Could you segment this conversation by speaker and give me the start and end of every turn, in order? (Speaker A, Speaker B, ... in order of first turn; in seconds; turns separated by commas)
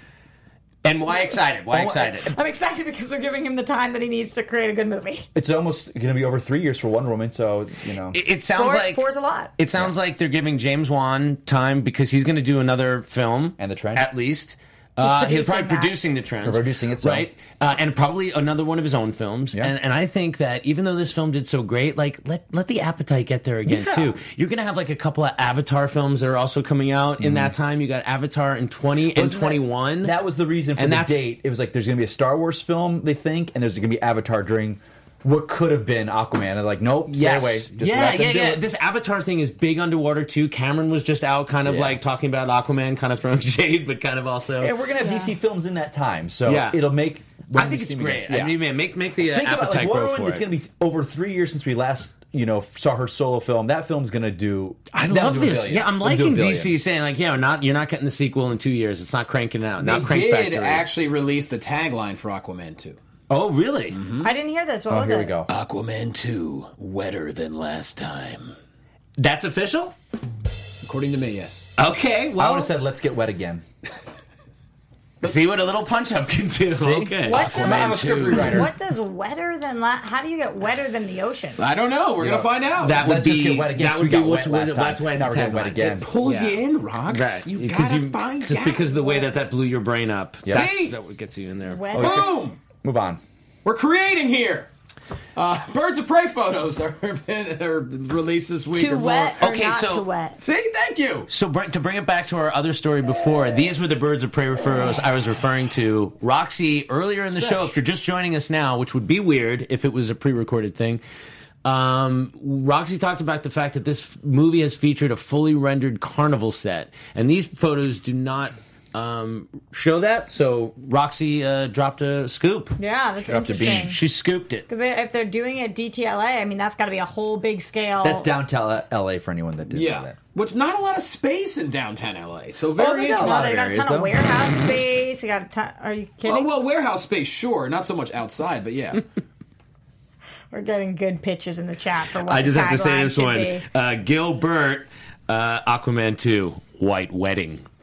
Speaker A: 0.8-2.3, Speaker B: 1.7-2.2, Speaker C: 2.2-5.3, Speaker B: 5.3-8.2, Speaker A: 8.1-9.0, Speaker C: 8.5-9.5, Speaker A: 9.6-30.2, Speaker B: 13.6-14.1, Speaker C: 15.0-15.9, Speaker B: 16.4-17.3, Speaker B: 23.6-24.2, Speaker B: 27.2-27.5, Speaker B: 29.1-38.6, Speaker A: 30.8-31.2, Speaker A: 37.0-44.7, Speaker B: 41.6-42.0, Speaker B: 44.6-48.5, Speaker C: 45.0-45.3, Speaker A: 46.5-46.8, Speaker A: 47.5-50.4, Speaker B: 49.3-56.7, Speaker A: 54.9-60.9, Speaker D: 59.8-63.0, Speaker A: 63.3-64.0, Speaker D: 63.9-64.3, Speaker C: 64.2-65.3, Speaker B: 64.9-65.5, Speaker D: 65.5-68.5, Speaker A: 69.2-69.9, Speaker D: 70.8-71.7, Speaker A: 71.8-72.7, Speaker B: 72.4-73.6, Speaker A: 75.2-78.4, Speaker B: 76.8-78.7, Speaker C: 77.2-81.6, Speaker D: 77.3-78.5, Speaker D: 81.6-83.0, Speaker B: 82.2-86.1, Speaker A: 82.8-91.9, Speaker D: 85.9-89.2, Speaker D: 90.5-90.9, Speaker C: 91.7-92.3, Speaker B: 91.9-93.2, Speaker D: 91.9-92.6, Speaker D: 93.6-94.7, Speaker D: 95.3-99.4, Speaker C: 98.7-100.4, Speaker A: 99.4-100.0, Speaker D: 100.4-101.3, Speaker A: 101.3-111.0, Speaker D: 107.3-107.7, Speaker A: 111.6-122.8, Speaker C: 122.8-124.0, Speaker B: 123.3-123.9, Speaker D: 123.3-123.5, Speaker A: 123.5-124.7, Speaker C: 124.7-128.3, Speaker B: 128.0-130.1, Speaker D: 129.7-133.4, Speaker B: 132.8-134.3, Speaker C: 132.8-136.5, Speaker D: 136.2-139.0, Speaker C: 140.5-143.6, Speaker A: 142.2-147.6